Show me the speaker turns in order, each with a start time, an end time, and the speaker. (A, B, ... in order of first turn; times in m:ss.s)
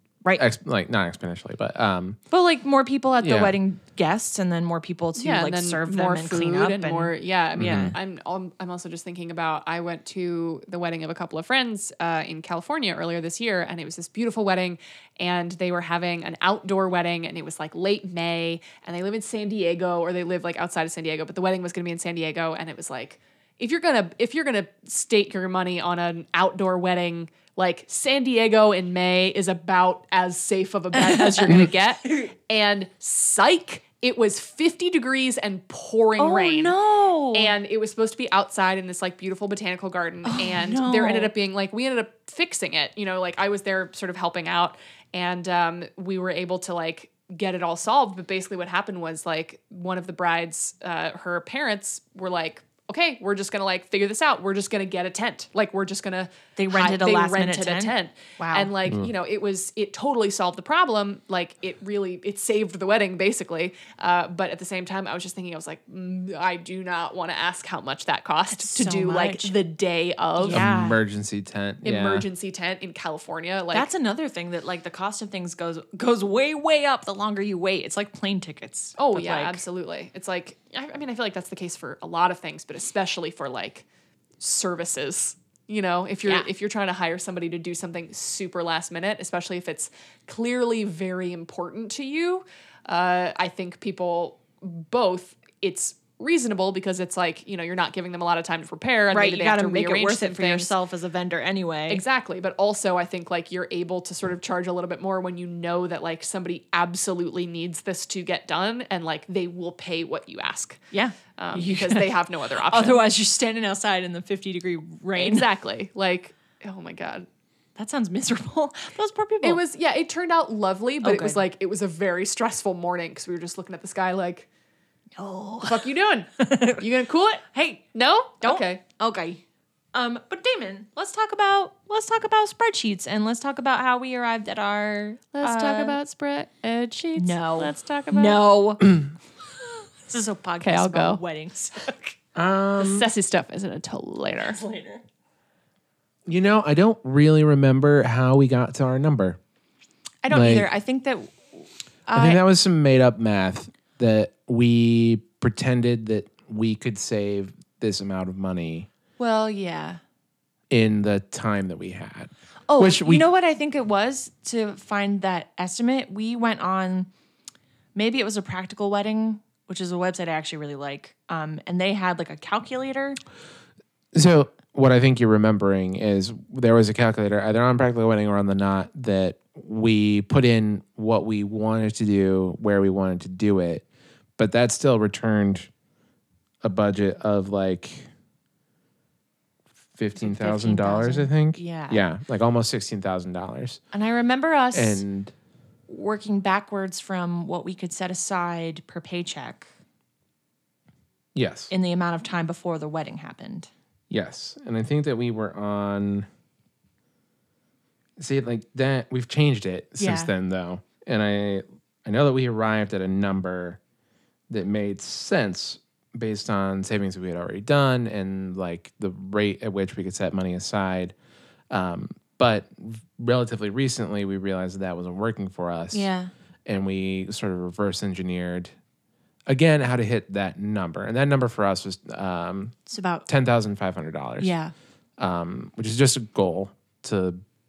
0:00.3-0:02.2 A
0:02.3-0:07.1 B
0:03.2-0:03.6 A
0:05.2-0:36.8 C
0:07.6-0:07.9 A
0:30.9-0:32.3 B
0:36.2-0:37.5 B
0:37.3-1:10.6 C
0:40.2-0:41.3 B
0:56.6-0:58.7 B
1:08.5-1:09.5 B
1:10.4-1:11.0 B
1:10.5-1:12.3 A
1:11.8-1:13.9 C
1:13.7-1:19.6 B
1:19.0-1:23.8 C
1:24.4-1:40.7 C
1:39.1-1:42.0 B
1:41.9-1:50.8 C
1:50.9-1:55.4 B
1:51.4-1:53.0 C
1:55.2-1:57.3 C
1:57.8-1:59.6 B
1:59.4-2:04.5 C
2:01.0-2:01.4 B
2:05.2-2:05.9 B
2:05.6-2:08.8 C
2:06.4-2:06.9 B
2:07.5-2:07.9 B
2:08.4-2:09.4 B
2:09.9-2:16.0 B
2:15.3-2:18.4 C
2:17.2-2:19.0 B
2:19.6-2:22.1 B
2:20.6-2:21.2 C
2:22.3-2:23.1 A
2:22.8-2:24.6 C
2:24.5-2:25.0 B
2:26.2-2:29.4 A
2:30.2-2:31.5 B
2:30.3-2:30.7 A
2:32.1-2:32.4 B
2:32.1-2:38.9 A
2:39.2-2:40.0 B
2:40.7-2:43.2 A
2:42.7-2:47.1 B
2:47.9-2:53.2 B
2:54.1-3:03.8 A
3:04.4-3:05.7 A
3:06.6-3:08.1 A
3:10.0-3:13.8 A
3:10.2-3:12.0 B
3:13.9-3:15.0 B
3:14.7-3:15.3 A
3:15.9-3:19.7 B
3:21.3-3:21.7 A
3:21.7-3:23.7 B
3:24.1-3:26.3 A
3:28.2-3:33.8 A
3:30.0-3:30.3 B
3:34.5-3:41.1 A
3:41.7-3:46.1 A
3:45.9-3:46.3 B
3:46.6-3:48.7 A
3:49.5-3:54.5 A
3:52.9-3:53.2 B
3:54.4-3:54.7 B
3:55.2-3:57.4 A